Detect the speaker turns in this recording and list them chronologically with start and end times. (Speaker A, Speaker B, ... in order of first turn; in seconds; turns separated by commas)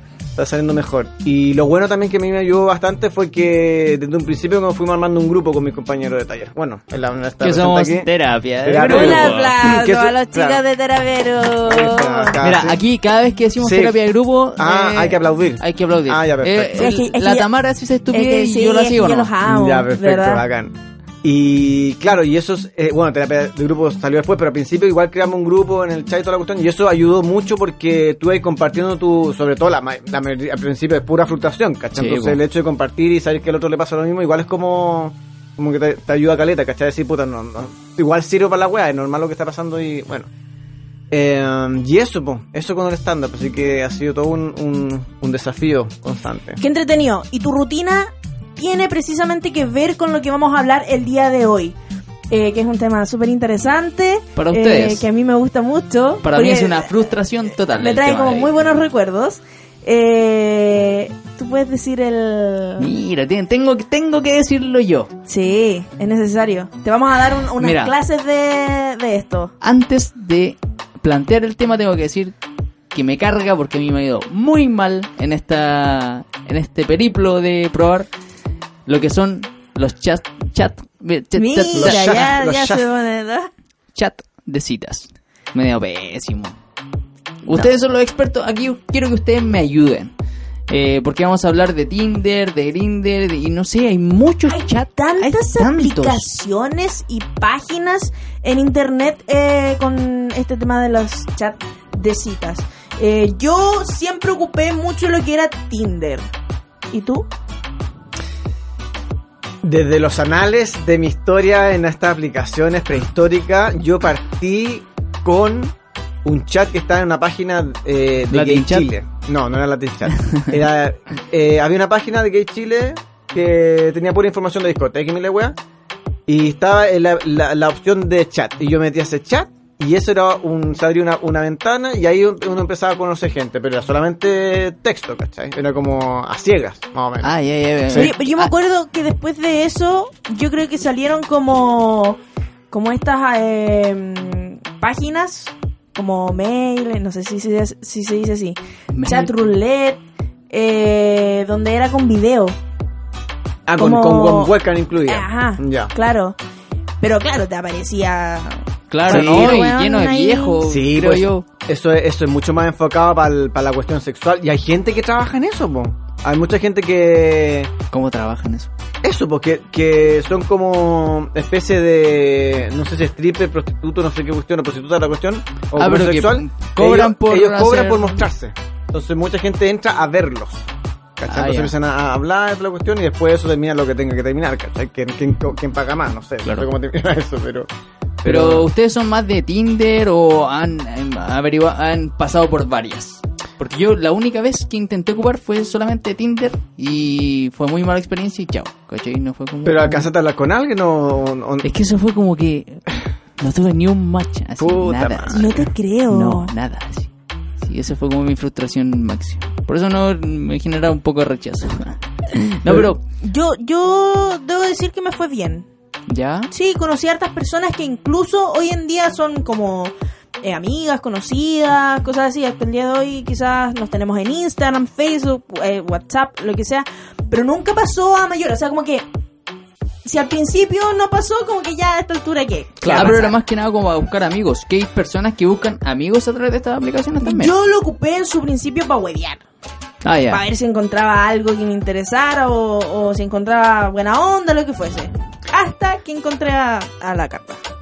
Speaker A: 0.3-8.1, Speaker B: 7.4-9.6, Speaker A: 8.6-10.6, Speaker C: 8.8-12.4, Speaker A: 11.6-12.8, Speaker B: 12.4-19.3, Speaker A: 13.6-14.0, Speaker A: 14.6-16.9, Speaker C: 16.7-17.5, Speaker C: 18.1-20.4, Speaker A: 19.4-40.3, Speaker B: 31.9-32.4, Speaker A: 41.1-46.6, Speaker C: 46.6-51.8, Speaker C: 52.3-57.1, Speaker B: 54.4-55.0, Speaker B: 56.2-58.6, Speaker C: 57.7-62.9, Speaker B: 62.8-65.1, Speaker C: 65.3-69.5, Speaker B: 67.6-67.9, Speaker B: 69.6-72.3, Speaker B: 72.9-78.1, Speaker B: 78.8-82.3, Speaker C: 81.3-83.5, Speaker A: 81.8-82.9, Speaker B: 83.9-86.5, Speaker B: 87.4-90.1, Speaker B: 90.7-96.2, Speaker C: 94.5-106.3, Speaker C: 106.9-107.3, Speaker A: 109.6-115.7, Speaker A: 116.2-125.5, Speaker B: 118.3-118.9, Speaker A: 126.3-137.3, Speaker B: 137.2-138.5, Speaker A: 137.8-138.1, Speaker C: 137.9-142.2, Speaker C: 142.7-152.6, Speaker B: 148.9-149.3, Speaker A: 153.7-155.9, Speaker C: 153.8-156.3, Speaker C: 157.0-160.6, Speaker B: 158.9-161.4, Speaker A: 159.1-159.7, Speaker A: 160.6-167.7, Speaker B: 167.9-168.7, Speaker A: 169.0-187.7, Speaker B: 175.8-178.2, Speaker B: 181.3-181.7, Speaker A: 188.2-188.7, Speaker B: 188.2-200.1, Speaker A: 199.6-201.7, Speaker B: 201.6-207.1, Speaker A: 204.6-205.5, Speaker C: 205.3-206.5, Speaker B: 207.6-213.0, Speaker A: 212.6-212.9, Speaker C: 213.2-215.7, Speaker B: 216.1-216.5, Speaker C: 216.5-229.1, Speaker C: 230.0-233.3, Speaker A: 232.8-233.2, Speaker B: 232.8-237.5, Speaker C: 237.2-239.4, Speaker B: 240.0-240.4, Speaker C: 240.3-247.6